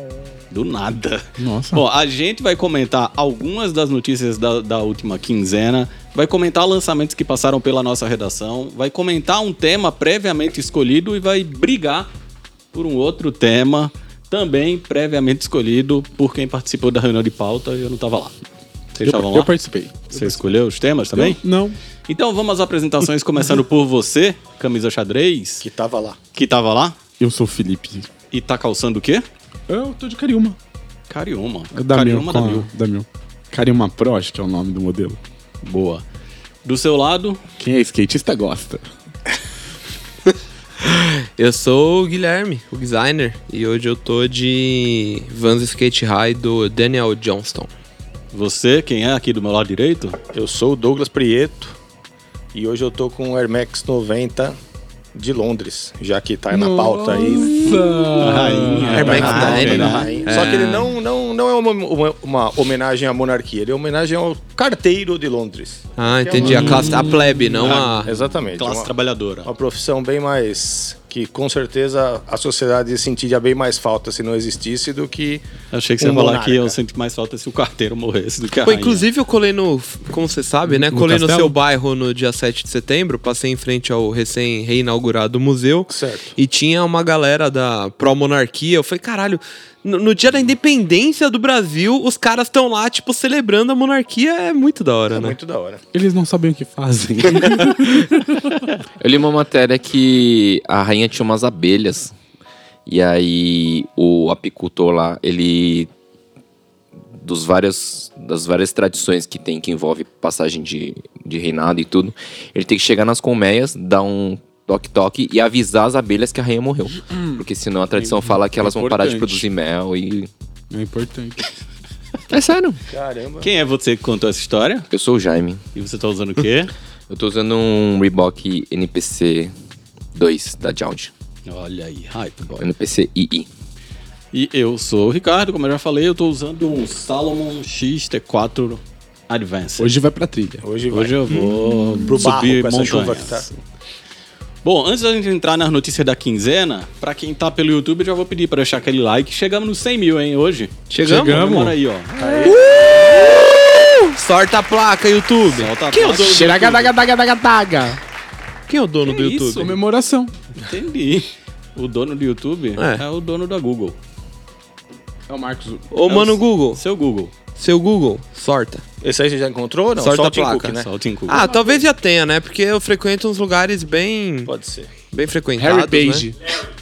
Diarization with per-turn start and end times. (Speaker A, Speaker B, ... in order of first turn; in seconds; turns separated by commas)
Speaker A: 0.5-12.1, Speaker B: 1.4-1.8, Speaker A: 12.7-18.3, Speaker A: 18.9-19.5, Speaker B: 19.0-20.4, Speaker A: 20.1-21.4, Speaker B: 21.1-21.8, Speaker A: 22.1-25.6, Speaker C: 25.6-26.2, Speaker A: 26.4-27.0, Speaker B: 27.2-28.1, Speaker A: 28.3-29.2, Speaker B: 29.7-30.6, Speaker A: 31.1-32.7, Speaker B: 31.7-35.2, Speaker A: 35.6-36.0, Speaker A: 36.6-37.4, Speaker B: 37.6-38.9, Speaker D: 40.8-47.7, Speaker A: 48.3-50.2, Speaker C: 50.3-51.8, Speaker C: 52.5-54.6, Speaker C: 55.1-57.7, Speaker B: 56.5-59.6, Speaker A: 58.2-60.2, Speaker D: 58.9-60.9, Speaker C: 58.9-68.9, Speaker D: 66.0-68.1, Speaker A: 66.4-69.5, Speaker B: 66.6-67.5, Speaker C: 69.5-75.4, Speaker A: 75.7-79.0, Speaker C: 76.0-76.8, Speaker D: 78.6-95.4, Speaker B: 80.7-81.6, Speaker C: 85.9-86.3, Speaker C: 95.1-95.8, Speaker B: 95.9-98.6, Speaker E: 99.0-102.1, Speaker E: 102.9-105.9, Speaker E: 107.2-120.3, Speaker B: 117.1-117.4, Speaker B: 118.0-119.5, Speaker B: 120.7-121.5, Speaker E: 122.3-122.8, Speaker C: 122.9-123.5, Speaker A: 123.4-124.9, Speaker E: 124.9-125.6, Speaker A: 125.8-126.7, Speaker E: 127.1-129.5, Speaker E: 130.1-131.1, Speaker A: 131.5-132.7, Speaker E: 132.6-133.5, Speaker A: 134.3-139.9, Speaker B: 139.8-140.6, Speaker C: 140.6-141.5, Speaker A: 140.9-143.6, Speaker C: 142.0-143.5, Speaker A: 144.6-152.6, Speaker D: 150.9-151.5, Speaker B: 151.0-151.8, Speaker C: 152.2-152.6, Speaker D: 152.4-156.5, Speaker A: 155.6-156.9, Speaker B: 156.1-158.0, Speaker D: 158.7-159.7, Speaker A: 159.1-159.8, Speaker B: 159.6-160.3, Speaker A: 160.6-164.0, Speaker D: 162.8-163.0, Speaker B: 165.3-165.9, Speaker D: 165.9-166.8, Speaker A: 166.1-167.3, Speaker D: 167.6-168.8, Speaker C: 169.0-171.5, Speaker D: 170.0-174.5, Speaker A: 170.8-171.4, Speaker C: 174.5-174.9, Speaker D: 175.1-176.3, Speaker B: 175.6-176.4